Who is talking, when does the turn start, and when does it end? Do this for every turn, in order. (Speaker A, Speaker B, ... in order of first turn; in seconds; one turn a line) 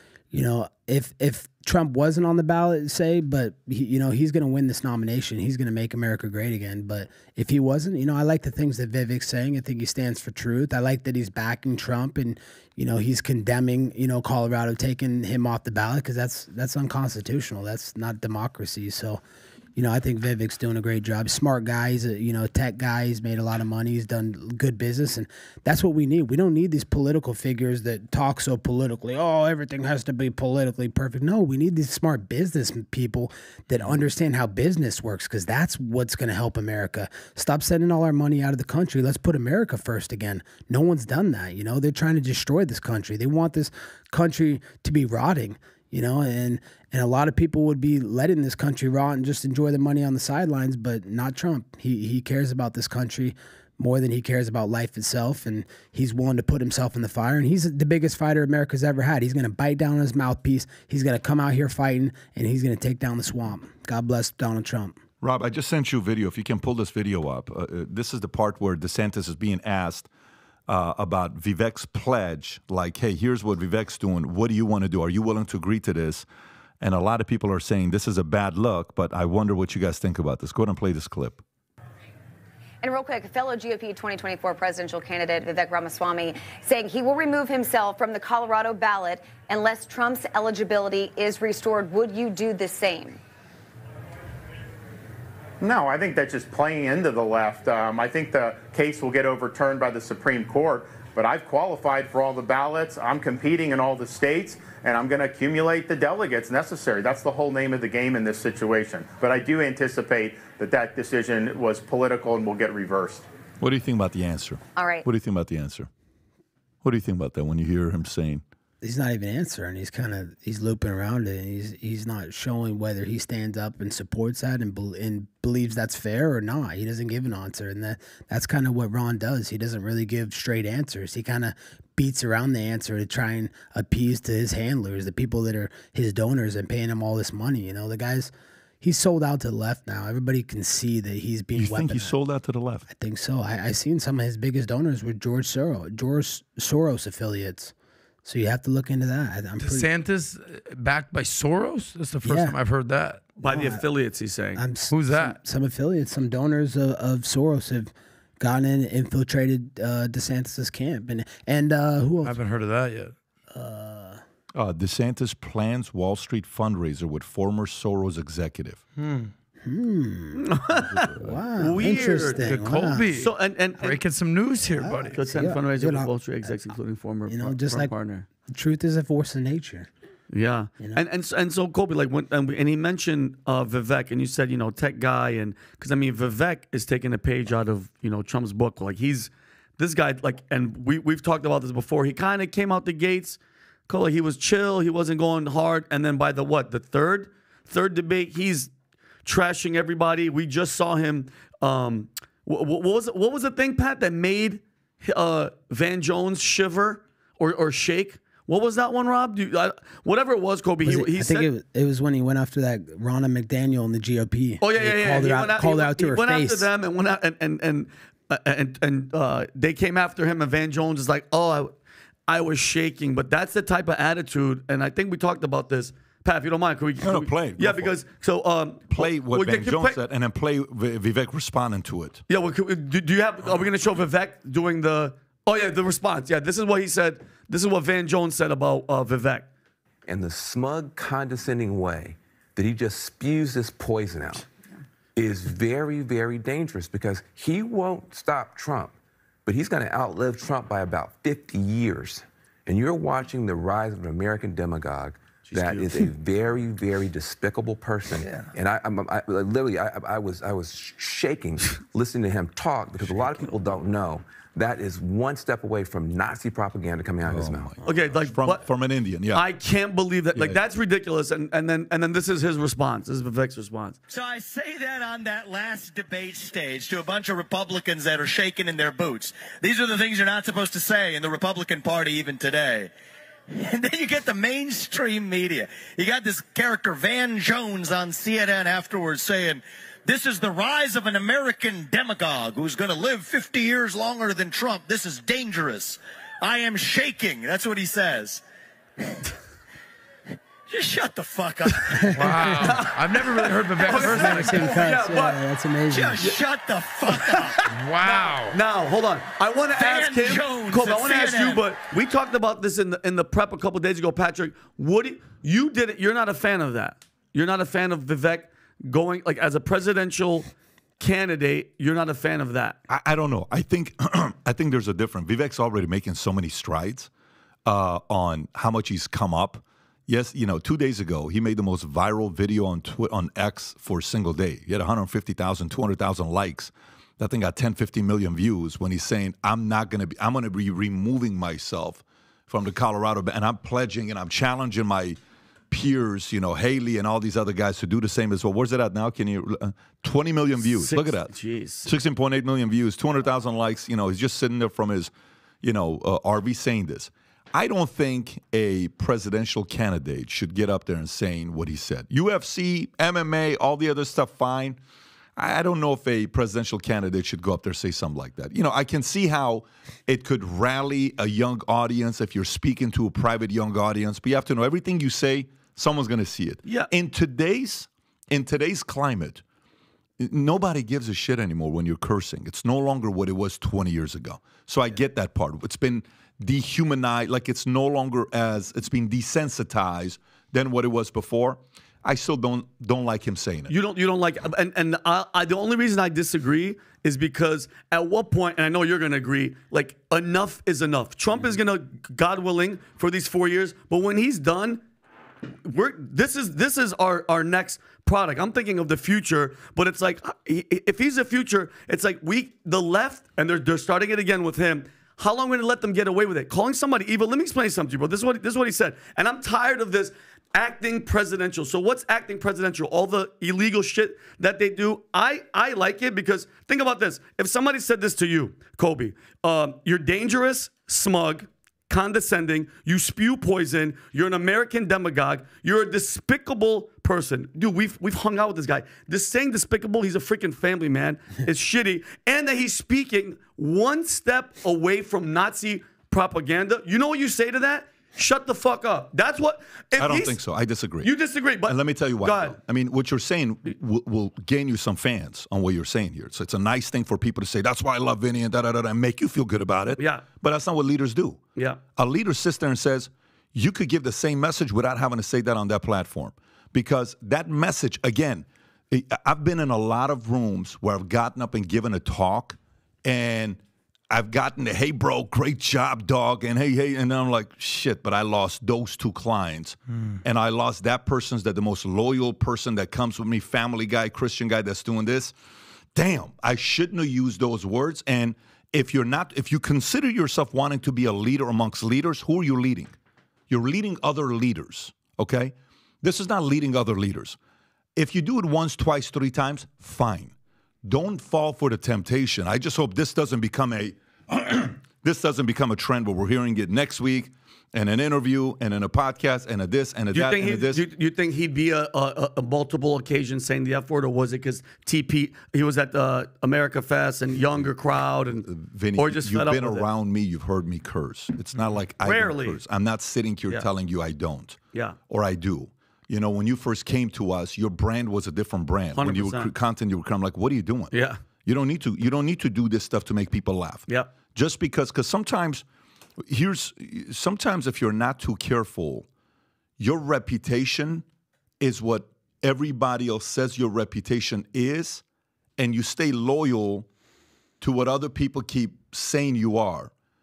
Speaker A: 0.3-19.2
Speaker A: 19.8-65.0
Speaker B: 65.2-70.1
Speaker B: 70.7-76.2
Speaker B: 76.8-81.4
Speaker C: 82.8-93.2
Speaker D: 95.6-113.2
Speaker B: 113.6-115.9
Speaker C: 114.8-115.0
Speaker B: 116.8-118.4
Speaker A: 118.8-138.3
Speaker A: 138.8-142.1
Speaker B: 141.6-142.8
Speaker A: 142.9-147.7
Speaker A: 148.2-149.9
Speaker E: 149.6-153.3
Speaker A: 152.2-152.6
Speaker F: 153.4-154.6
Speaker A: 153.4-153.8
Speaker A: 154.5-162.4
Speaker E: 154.9-155.4
Speaker E: 162.2-163.1
Speaker A: 163.5-164.2
Speaker B: 164.5-168.8
Speaker E: 169.0-169.3
Speaker A: 169.6-170.4
Speaker F: 170.3-172.4
Speaker B: 170.7-171.4
Speaker A: 171.2-173.1
Speaker E: 172.4-175.2
Speaker F: 173.1-174.0
Speaker A: 174.8-176.5
Speaker F: 175.1-178.2
Speaker A: 177.3-177.9
Speaker A: 178.5-179.9
Speaker F: 180.3-193.4
Speaker F: 193.9-198.7
Speaker F: 199.2-211.5
Speaker A: 210.8-216.7
Speaker F: 214.6-221.7
Speaker F: 222.3-230.0
Speaker B: 227.0-227.9
Speaker B: 228.9-232.2
Speaker F: 232.3-239.5
Speaker G: 240.1-244.4
Speaker G: 245.2-267.8
Speaker B: 255.5-256.1
Speaker B: 267.2-269.4
Speaker F: 267.8-268.6
Speaker F: 269.3-274.0
Speaker H: 274.1-282.9
Speaker H: 283.5-298.4
Speaker H: 300.7-302.1
Speaker A: 301.9-302.7
Speaker E: 302.1-304.7
Speaker F: 302.4-305.4
Speaker A: 304.0-306.3
Speaker H: 305.9-308.4
Speaker F: 307.2-307.6
Speaker E: 307.7-308.6
Speaker F: 308.5-320.5
Speaker H: 309.7-311.7
Speaker F: 321.0-322.8
Speaker B: 322.9-327.1
Speaker B: 327.6-345.2
Speaker B: 345.7-351.3
Speaker F: 350.6-351.9
Speaker B: 351.8-355.1
Speaker B: 355.6-364.8
Speaker B: 365.4-379.4
Speaker B: 380.2-393.7
Speaker F: 393.7-404.8
Speaker F: 405.6-450.4
Speaker B: 450.0-451.1
Speaker F: 451.0-452.6
Speaker B: 451.6-461.4
Speaker F: 460.0-460.2
Speaker B: 461.9-473.6
Speaker B: 474.1-485.3
Speaker B: 485.9-492.9
Speaker B: 493.5-497.4
Speaker B: 497.9-510.8
Speaker F: 510.1-519.9
Speaker B: 518.4-524.6
Speaker F: 522.0-522.6
Speaker B: 525.1-535.6
Speaker F: 528.9-529.5
Speaker F: 530.9-531.2
Speaker B: 536.2-539.1
Speaker B: 539.8-541.0
Speaker B: 541.6-545.0
Speaker B: 545.6-546.9
Speaker B: 547.6-549.9